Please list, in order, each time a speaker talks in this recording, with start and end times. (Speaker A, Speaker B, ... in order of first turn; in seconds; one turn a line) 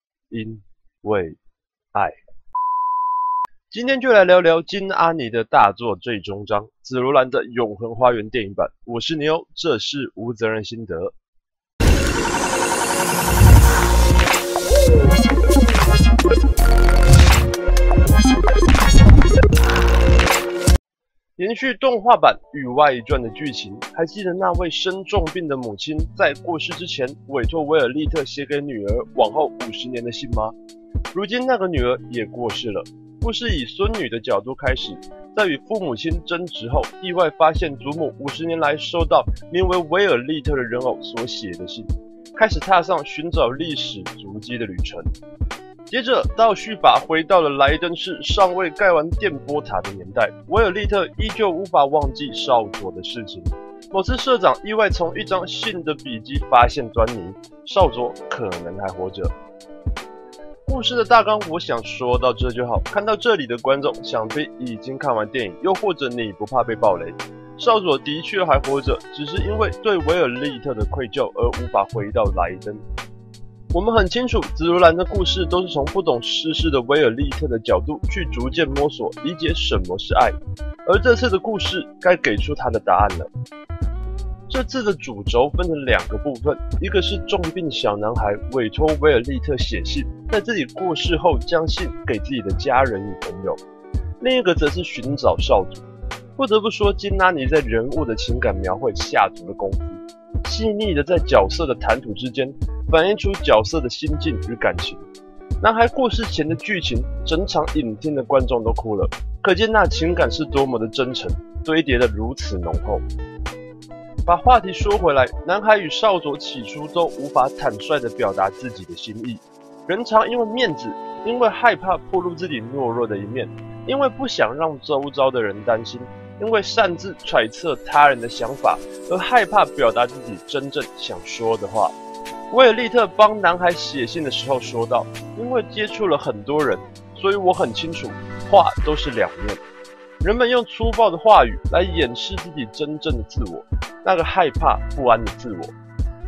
Speaker A: 0.3-1.4
Speaker A: 3.7-11.1
Speaker A: 21.4-30.6
Speaker A: 31.1-45.1
Speaker A: 45.9-59.3
Speaker A: 60.7-72.8
Speaker A: 73.7-83.3
Speaker A: 84.5-93.6
Speaker A: 94.2-95.8
Speaker A: 96.3-105.0
Speaker A: 105.6-113.0
Speaker A: 114.2-131.9
Speaker A: 132.5-139.6
Speaker A: 140.2-145.7